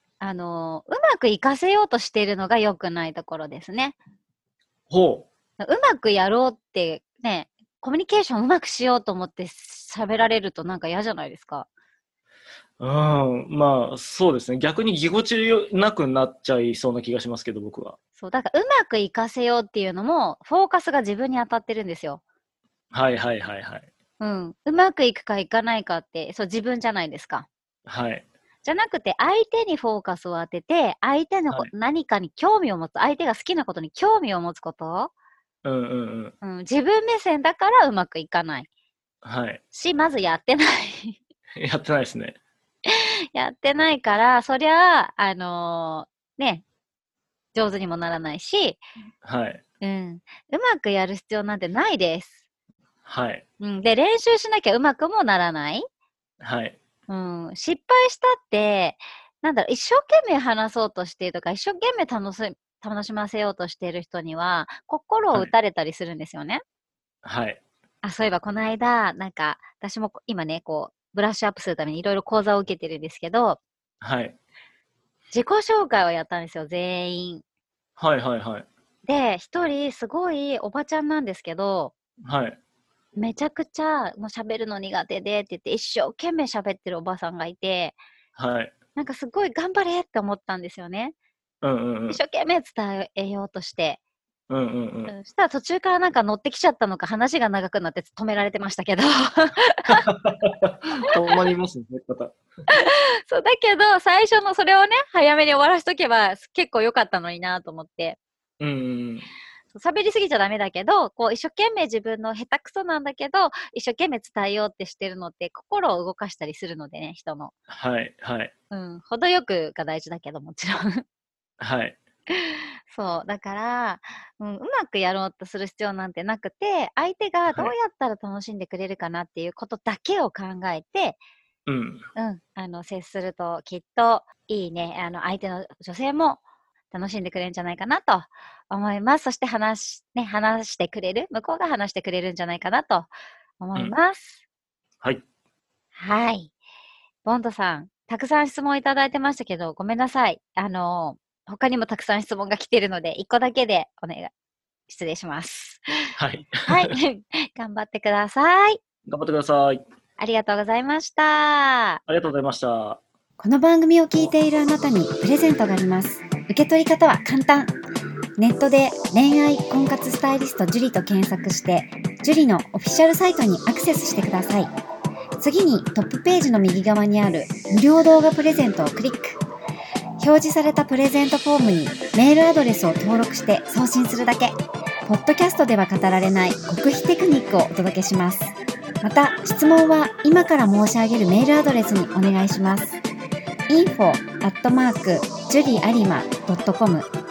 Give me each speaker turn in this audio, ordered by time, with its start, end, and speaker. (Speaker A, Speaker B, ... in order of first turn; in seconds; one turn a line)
Speaker A: 0.2-4.0
Speaker B: 4.9-5.3
Speaker A: 5.6-11.7
Speaker B: 12.8-18.0
Speaker A: 18.2-22.2
Speaker B: 22.9-23.9
Speaker A: 24.2-27.5
Speaker B: 27.9-28.2
Speaker A: 28.6-35.1
Speaker B: 35.6-36.3
Speaker A: 36.4-38.7
Speaker B: 39.2-39.6
Speaker A: 39.7-41.2
Speaker B: 41.6-42.4
Speaker A: 42.9-46.6
Speaker A: 47.5-48.8
Speaker B: 49.2-49.6
Speaker A: 49.8-52.4
Speaker B: 53.0-53.4
Speaker A: 53.6-55.8
Speaker B: 56.4-56.8
Speaker A: 57.1-66.6
Speaker B: 67.2-67.6
Speaker A: 68.0-73.6
Speaker B: 74.0-74.3
Speaker A: 75.3-77.4
Speaker B: 78.0-78.7
Speaker A: 79.0-81.9
Speaker B: 82.2-82.6
Speaker A: 83.2-88.0
Speaker B: 88.3-88.7
Speaker A: 89.0-91.1
Speaker B: 91.6-92.2
Speaker A: 92.1-94.0
Speaker B: 94.5-95.1
Speaker A: 95.1-100.0
Speaker B: 99.9-102.3
Speaker A: 102.7-108.2
Speaker B: 108.6-109.3
Speaker A: 109.7-117.5
Speaker B: 117.7-118.5
Speaker A: 118.7-121.0
Speaker B: 121.6-122.0
Speaker A: 122.3-131.2
Speaker B: 131.7-132.1
Speaker A: 132.2-144.4
Speaker A: 145.9-146.5
Speaker A: 147.2-154.3
Speaker A: 154.9-156.1
Speaker B: 156.2-156.9
Speaker A: 156.7-158.8
Speaker B: 159.1-159.8
Speaker A: 160.2-162.0
Speaker B: 162.1-163.0
Speaker C: 163.4-167.7
Speaker C: 168.4-174.7
Speaker C: 175.4-179.4
Speaker C: 180.2-184.5
Speaker C: 185.1-193.0
Speaker C: 193.7-197.1